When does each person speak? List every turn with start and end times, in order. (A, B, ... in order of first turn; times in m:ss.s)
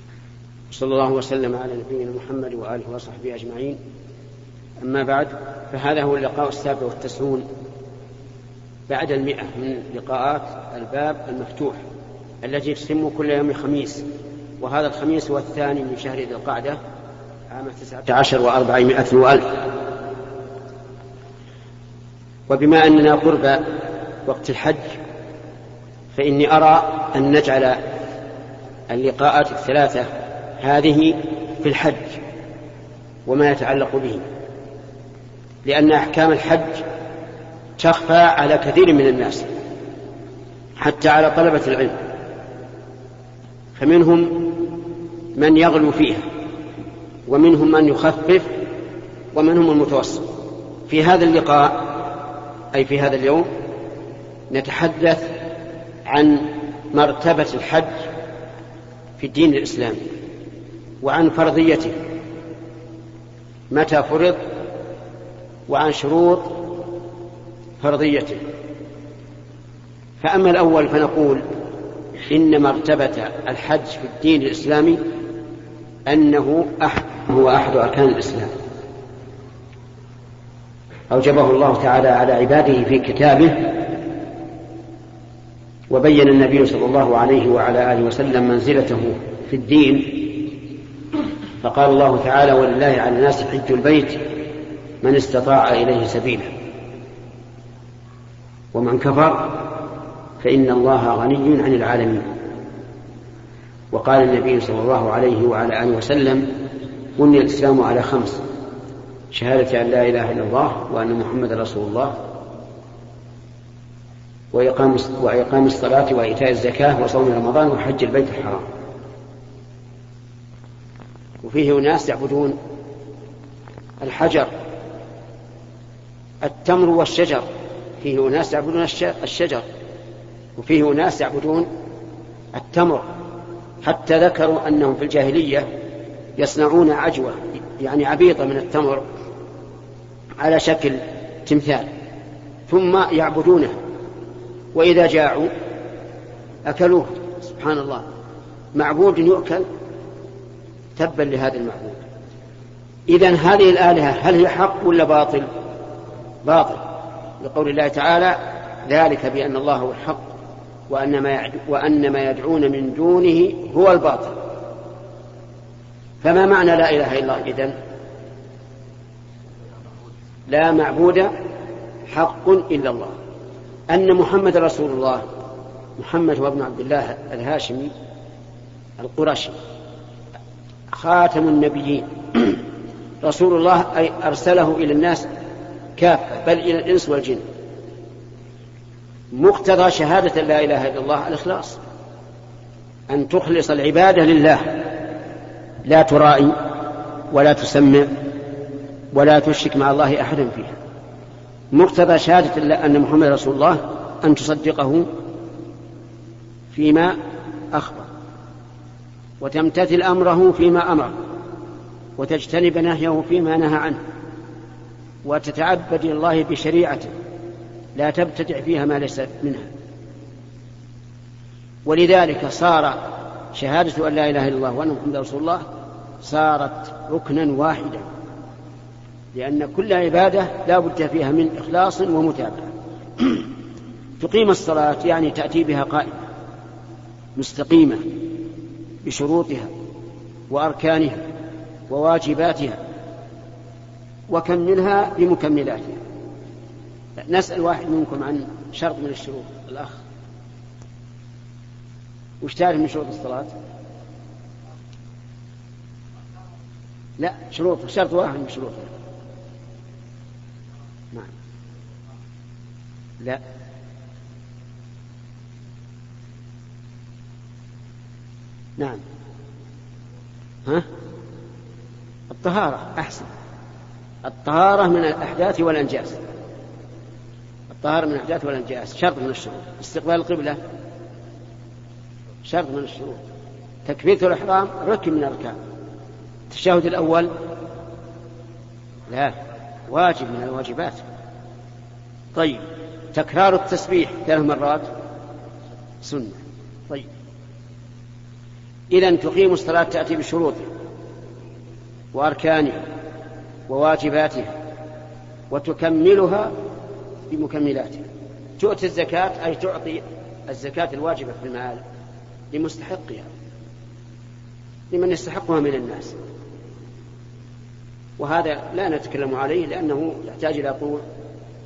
0:00.7-0:03.8 A
0:04.8-0:07.5 A
0:08.9-0:11.8 A
0:12.4-0:14.0 A
0:14.6-0:16.8 A
0:17.5-0:19.7 A
0:22.5-0:23.7 A
0:24.3-0:25.0 A
0:26.2-0:27.8 A
0:28.9-0:30.1 A
0:30.6-0:32.2 A
0:33.3-0:34.2 A
0:35.6-0:36.8 A
0:37.8-0:39.5 A
0:40.8-0:42.0 A
0:43.8-0:44.8 A
0:45.4-0:46.2 A
0:47.3-0:48.5 A
0:49.4-0:50.3 A
0:50.9-0:52.0 A
0:52.7-0:53.5 A
0:54.5-0:55.3 A
0:56.1-0:58.1 A
0:59.2-1:00.0 A
1:01.0-1:02.0 A
1:03.7-1:04.4 A
1:05.7-1:06.8 A
1:07.8-1:08.4 A
1:10.2-1:11.4 A
1:12.3-1:15.0 A
1:16.1-1:18.5 A
1:21.1-1:23.9 A
1:25.9-1:30.5 A
1:31.6-1:34.3 A
1:35.0-1:36.5 A
1:38.7-1:39.8 A
1:40.4-1:42.3 A
1:43.9-1:46.5 A
1:47.2-1:48.4 A
1:49.3-1:52.2 A
1:54.5-1:58.7 A
2:01.4-2:02.6 A
2:04.0-2:04.5 A
2:06.4-2:07.5 A
2:08.0-2:09.6 A
2:10.6-2:11.7 A
2:12.5-2:13.1 A
2:13.8-2:15.7 A
2:16.4-2:19.1 A
2:20.4-2:21.9 A
2:22.7-2:23.8 A
2:24.8-2:25.5 A
2:26.7-2:28.0 A
2:28.8-2:29.7 A
2:31.0-2:32.0 A
2:33.1-2:35.5 A
2:36.4-2:36.9 A
2:37.4-2:40.3 A
2:40.9-2:44.4 A
2:46.2-2:47.8 A
2:50.5-2:51.3 A
2:52.1-2:53.2 A
2:53.9-2:55.3 A
2:56.0-2:57.9 A
2:59.0-2:59.6 A
3:00.9-3:02.6 A
3:03.2-3:05.3 A
3:06.0-3:07.4 A
3:09.3-3:11.8 A
3:13.1-3:15.0 A
3:15.9-3:16.7 A
3:17.3-3:18.1 A
3:19.1-3:20.8 A
3:21.7-3:25.1 A
3:26.7-3:27.2 A
3:27.7-3:28.1 A
3:29.4-3:31.2 A
3:32.2-3:34.0 A
3:35.2-3:37.1 A
3:38.0-3:39.7 A
3:41.9-3:45.6 A
3:46.2-3:48.1 A
3:49.3-3:52.7 A
3:54.2-3:56.2 A
3:57.4-3:58.0 A
3:59.0-3:59.7 A
4:00.5-4:01.2 A
4:01.9-4:02.8 A
4:04.3-4:06.0 A
4:07.2-4:10.0 A
4:12.4-4:13.5 A
4:17.2-4:18.9 A
4:32.3-4:33.3 A
4:34.2-4:36.2 A
4:37.7-4:40.6 A
4:42.5-4:43.2 A
4:43.9-4:45.6 A
4:46.5-4:47.3 A
4:49.1-4:49.4 A
4:49.9-4:51.0 A
4:52.4-4:54.9 A
4:56.0-4:57.1 A
4:58.9-5:00.7 A
5:02.1-5:02.8 A
5:03.7-5:04.6 A
5:05.5-5:06.5 A
5:07.3-5:08.0 A
5:08.6-5:11.8 A
5:12.5-5:13.3 A
5:14.9-5:16.2 A
5:18.2-5:21.0 A